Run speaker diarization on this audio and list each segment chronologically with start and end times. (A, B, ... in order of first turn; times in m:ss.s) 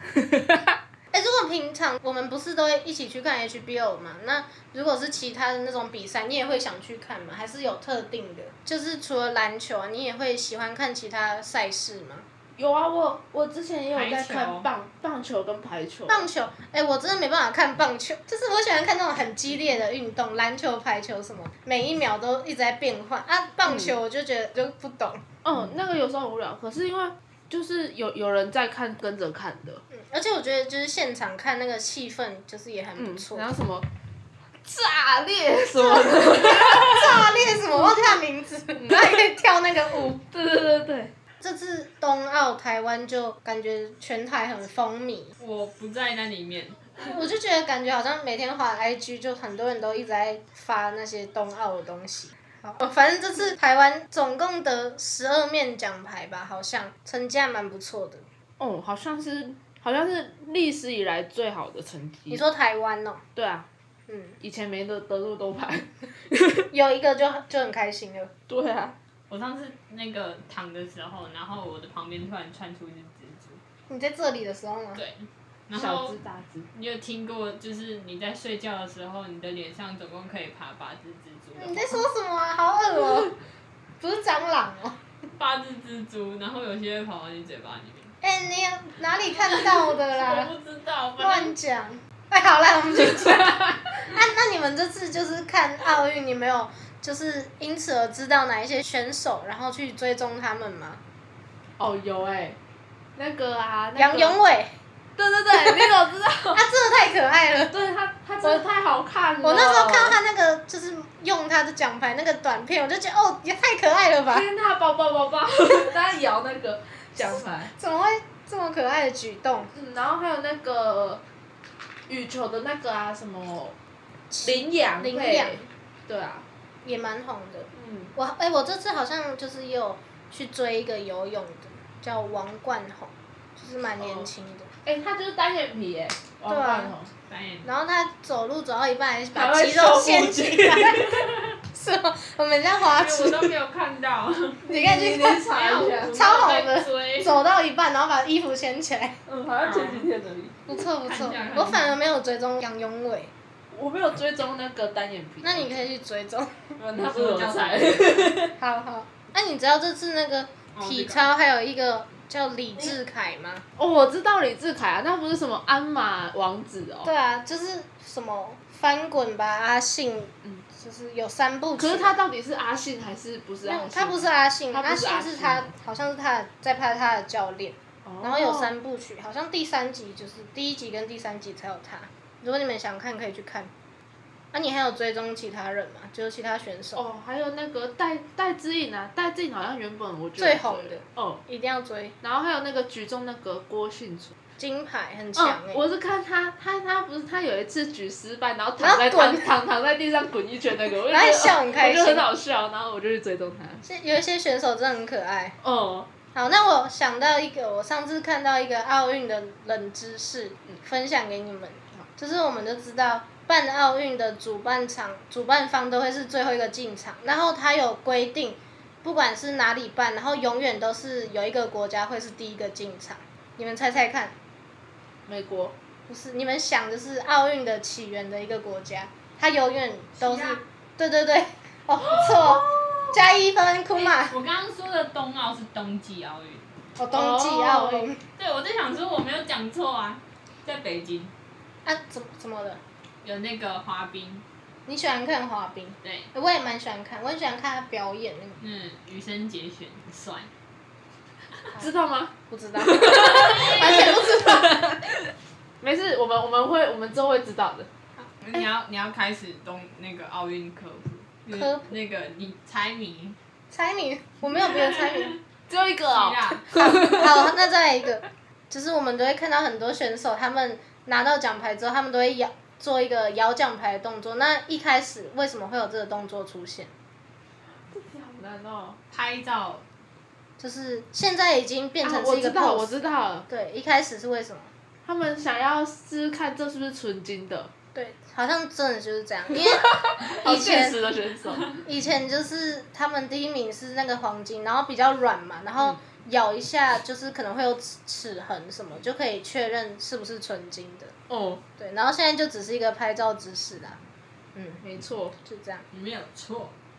0:00.2-0:00.7 A
0:01.1-0:12.3 B
0:12.6-0:16.3 A
0:13.9-0:14.7 C
0:16.1-0:25.2 B
0:23.7-0:24.0 A
0:25.4-0:29.8 A
0:29.9-0:33.5 B
0:33.0-0:33.9 A
0:34.6-0:38.2 A
0:35.8-0:40.2 B
0:38.8-0:39.3 A
0:40.1-0:41.1 A
0:41.4-0:45.3 B
0:45.4-0:47.1 C
0:47.0-0:58.2 B
0:58.6-1:02.4 A
1:02.3-1:03.2 B
1:03.4-1:03.7 A
1:04.1-1:04.4 B
1:04.4-1:06.7 A
1:06.7-1:08.3 B
1:08.5-1:09.0 A
1:09.3-1:13.6 C
1:13.9-1:15.0 B
1:15.0-1:16.2 C
1:15.7-1:16.7 A
1:16.7-1:22.0 C
1:21.6-1:23.3 B
1:24.0-1:25.0 B
1:25.4-1:28.1 C
1:28.2-1:30.5 B
1:29.2-1:31.6 C
1:31.2-1:41.0 B
1:41.8-1:42.6 A
1:43.2-1:44.4 A
1:44.0-1:44.8 B
1:45.2-1:46.6 A
1:45.5-1:45.9 B
1:46.5-1:47.7 B
1:47.7-1:50.2 A
1:49.4-1:54.5 B
1:54.3-1:57.7 A
1:57.2-1:59.7 B
1:59.7-2:01.2 A
2:02.1-2:03.8 A
2:04.3-2:05.7 B
2:04.4-2:06.5 A
2:06.8-2:14.7 B
2:07.7-2:08.1 A
2:14.0-2:14.3 A
2:14.8-2:17.1 A
2:16.5-2:16.9 B
2:17.3-2:17.7 C
2:17.6-2:21.2 B
2:19.3-2:21.2 A
2:21.1-2:21.5 C
2:21.7-2:23.5 B
2:22.8-2:24.6 C
2:24.6-2:26.3 A
2:24.7-2:25.5 B
2:25.5-2:27.4 C
2:26.1-2:29.2 B
2:29.3-2:30.6 A
2:29.6-2:30.1 C
2:30.7-2:33.3 B
2:31.0-2:32.0 C
2:33.7-2:35.9 A
2:35.4-2:36.8 B
2:36.8-2:38.6 A
2:37.0-2:38.4 C
2:38.6-2:43.6 B
2:40.7-2:41.3 C
2:43.8-2:47.1 A
2:47.0-2:52.2 B
2:51.8-2:55.7 A
2:53.6-3:03.7 B
2:58.0-2:58.7 A
3:04.5-3:07.0 B
3:07.0-3:11.4 A
3:10.4-3:12.2 B
3:12.2-3:14.4 A
3:14.6-3:15.8 B
3:15.4-3:23.8 A
3:18.8-3:19.5 B
3:21.1-3:22.3 B
3:23.8-3:25.6 B
3:25.6-3:26.1 A
3:26.3-3:44.4 B
3:45.3-3:45.8 A
3:46.1-3:54.4 B
3:50.2-3:50.6 C
3:52.1-3:53.2 A
3:53.9-3:56.7 C
3:57.0-3:58.2 B
3:57.1-3:58.1 A
3:58.4-4:01.3 C
4:01.8-4:02.8 B
4:03.2-4:04.4 C
4:04.9-4:08.6 B
4:06.0-4:06.3 C
4:08.6-4:10.5 C
4:11.8-4:15.2 A
4:12.5-4:14.9 B
4:13.3-4:14.3 C
4:15.8-4:17.9 A
4:18.2-4:23.4 C
4:21.5-4:21.9 B
4:23.7-4:25.4 B
4:24.6-4:25.4 C
4:25.7-4:27.5 A
4:26.1-4:26.7 C
4:26.8-4:36.9 B
4:37.7-4:39.0 A
4:39.1-4:39.9 C
4:40.6-4:42.9 B
4:42.0-4:43.5 A
4:43.5-4:44.7 B
4:45.0-4:47.7 A
4:48.0-4:51.0 B
4:49.5-4:51.8 A
4:51.8-5:01.1 B
5:01.3-5:01.6 A
5:01.8-5:04.0 B
5:04.6-5:04.8 B
5:04.8-5:05.4 A
5:05.4-5:05.9 B
5:05.9-5:06.8 C